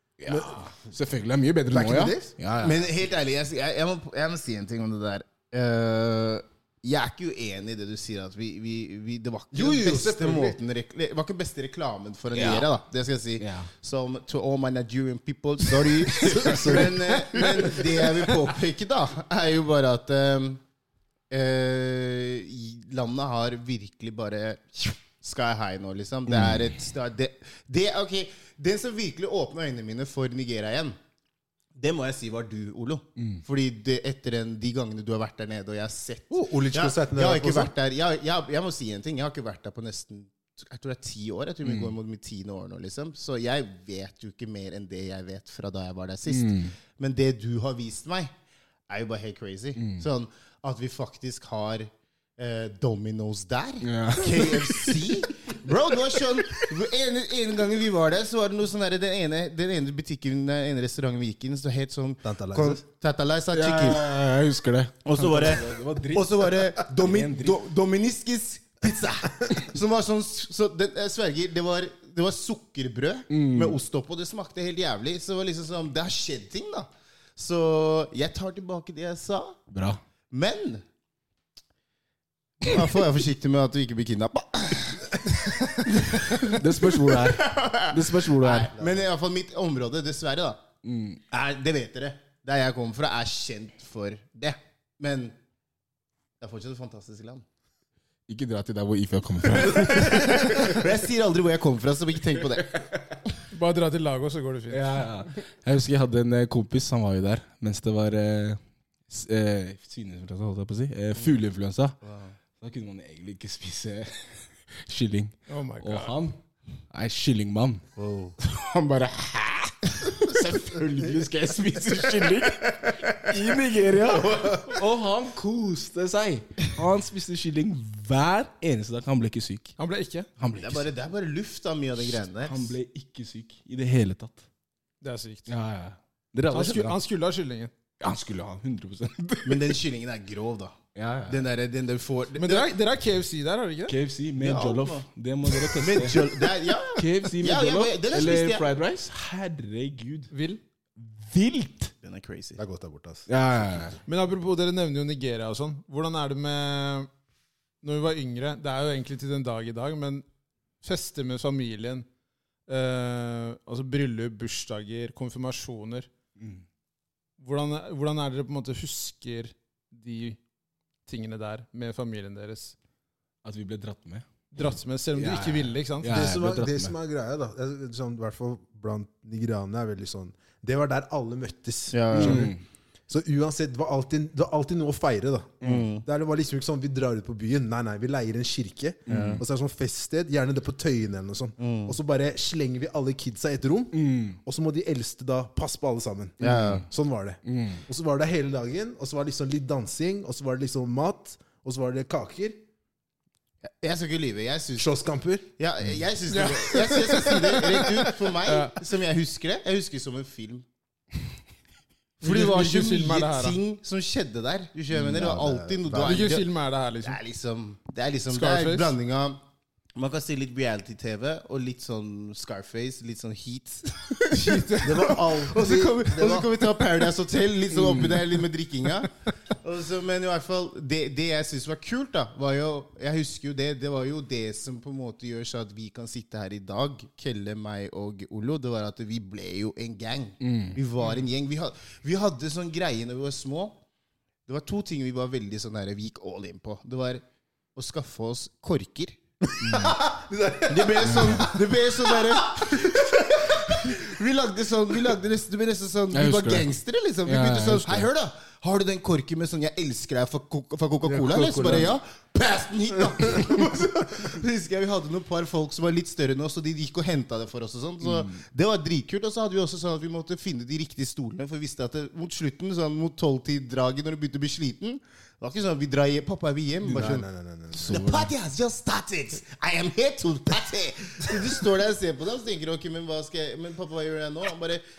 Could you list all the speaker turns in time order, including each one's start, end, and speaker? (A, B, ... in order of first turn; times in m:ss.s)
0:00.2-0:02.9 A
0:00.3-0:00.6 B
0:01.7-0:02.3 B
0:02.6-0:20.6 C
0:09.5-0:10.6 B
0:12.3-0:12.7 A
0:13.4-0:13.7 A
0:16.0-0:17.4 A
0:16.2-0:17.5 B
0:21.3-0:31.0 C
0:26.3-0:26.8 A
0:31.8-0:48.3 C
0:33.2-0:33.4 A
0:36.3-0:37.7 B
0:41.6-0:41.9 A
0:46.3-0:46.8 A
0:48.9-1:04.0 C
0:49.8-0:50.0 A
0:53.8-0:55.1 A
1:02.2-1:02.8 B
1:03.5-1:07.6 A
1:05.0-1:19.6 C
1:13.3-1:13.8 A
1:19.7-1:20.0 A
1:20.3-1:20.8 C
1:22.6-1:30.6 C
1:26.2-1:28.7 A
1:30.8-1:31.2 A
1:31.3-1:35.4 C
1:36.4-1:37.4 C
1:38.3-1:40.9 A
1:39.6-1:42.9 C
1:43.5-1:45.0 D
1:44.7-1:52.0 A
1:52.0-1:52.4 C
1:52.6-1:56.4 A
1:55.5-1:56.2 D
1:56.9-1:57.8 A
1:58.0-1:58.4 C
1:58.4-2:09.8 A
2:09.8-2:10.3 D
2:10.4-2:10.9 A
2:10.6-2:12.8 C
2:12.4-2:14.4 A
2:15.0-2:15.5 D
2:15.5-2:17.0 A
2:16.5-2:17.7 D
2:18.0-2:19.7 A
2:19.4-2:22.7 C
2:21.0-2:21.4 A
2:22.4-2:24.0 D
2:23.9-2:30.3 A
2:24.4-2:28.7 C
2:30.3-2:30.6 D
2:31.0-2:31.9 A
2:32.0-2:32.6 C
2:32.6-2:33.3 B
2:33.3-2:34.0 A
2:34.1-2:37.1 D
2:37.8-2:40.2 D
2:40.8-2:42.1 D
2:42.7-2:46.1 D
2:46.4-2:46.6 A
2:47.4-2:50.4 D
2:51.1-2:52.8 D
2:53.4-2:54.3 A
2:54.5-2:56.1 D
2:55.2-2:57.0 A
2:56.0-3:02.6 B
3:01.9-3:02.5 C
3:02.1-3:02.6 A
3:03.1-3:22.6 B
3:05.6-3:06.1 C
3:09.1-3:09.4 A
3:09.1-3:09.4 C
3:11.6-3:12.0 C
3:13.9-3:14.4 A
3:16.4-3:16.9 C
3:16.4-3:16.8 A
3:17.4-3:17.8 A
3:23.8-3:25.0 C
3:24.8-3:25.5 B
3:25.6-3:30.6 C
3:26.3-3:28.8 D
3:32.2-3:33.6 D
3:32.2-3:36.5 C
3:34.9-3:36.3 B
3:36.0-3:37.2 D
3:37.0-3:39.4 C
3:38.3-3:38.9 D
3:40.0-4:03.8 C
3:44.3-3:45.2 D
3:44.8-3:46.8 B
3:47.7-3:48.4 A
4:00.4-4:00.8 A
4:04.5-4:07.2 C
4:07.8-4:09.2 C
4:09.4-4:14.0 B
4:09.6-4:10.0 A
4:10.7-4:44.8 C
4:11.0-4:11.5 A
4:16.1-4:16.7 A
4:17.2-4:18.1 A
4:21.1-4:22.0 B
4:23.2-4:23.6 B
4:28.0-4:28.4 A
4:36.9-4:38.0 B
4:36.9-4:37.1 A
4:37.8-4:38.3 A